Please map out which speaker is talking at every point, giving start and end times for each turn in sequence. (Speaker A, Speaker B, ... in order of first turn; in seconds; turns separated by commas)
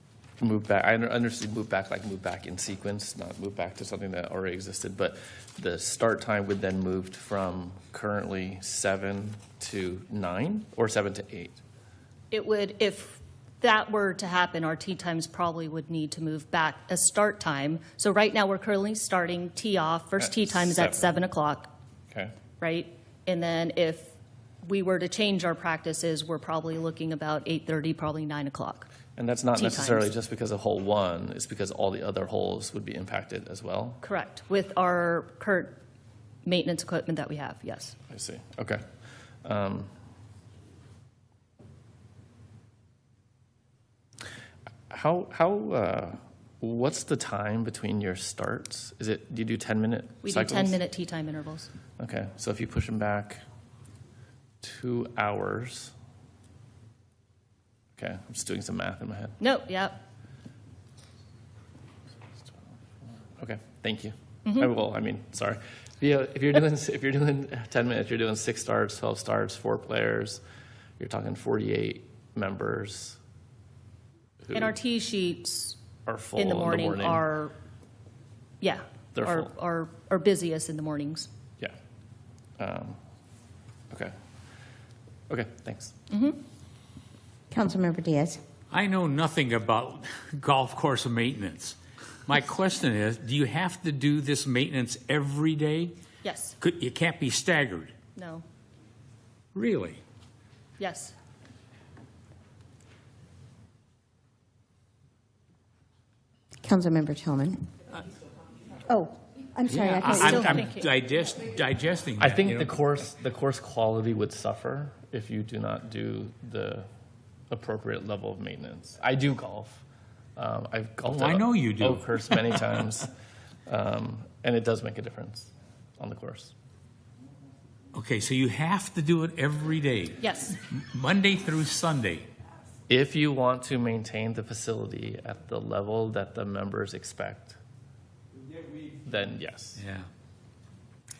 Speaker A: 0.4-11.6, Speaker B: 12.3-21.7, Speaker A: 20.2-21.1, Speaker B: 22.6-28.9, Speaker A: 29.1-34.0, Speaker B: 29.6-30.1, Speaker B: 34.0-35.8, Speaker B: 36.5-38.0, Speaker A: 38.1-38.8, Speaker A: 39.4-39.9, Speaker A: 44.9-50.8, Speaker B: 50.2-51.7, Speaker A: 52.0-53.4, Speaker A: 54.6-55.9, Speaker A: 58.0-59.4, Speaker B: 59.4-60.0, Speaker A: 63.4-70.4, Speaker A: 71.0-73.2, Speaker A: 74.5-74.7, Speaker B: 74.5-75.8, Speaker A: 76.1-77.2, Speaker B: 76.4-77.5, Speaker B: 78.6-81.3, Speaker A: 79.2-79.5, Speaker A: 82.6-83.0, Speaker A: 85.3-85.9, Speaker B: 86.1-86.4, Speaker C: 87.5-88.4, Speaker D: 88.7-95.9, Speaker B: 96.2-96.6, Speaker D: 96.6-97.9, Speaker B: 98.2-98.4, Speaker D: 99.5-100.0, Speaker B: 100.8-101.1, Speaker C: 106.6-107.7, Speaker C: 108.9-110.6, Speaker D: 109.7-112.8, Speaker B: 110.2-110.9, Speaker A: 112.2-116.9, Speaker A: 117.5-119.8, Speaker A: 120.4-123.1, Speaker D: 121.1-122.8, Speaker A: 123.7-126.5, Speaker D: 127.9-132.3, Speaker B: 130.2-130.6, Speaker A: 132.9-137.6, Speaker A: 139.0-139.8, Speaker D: 139.8-140.1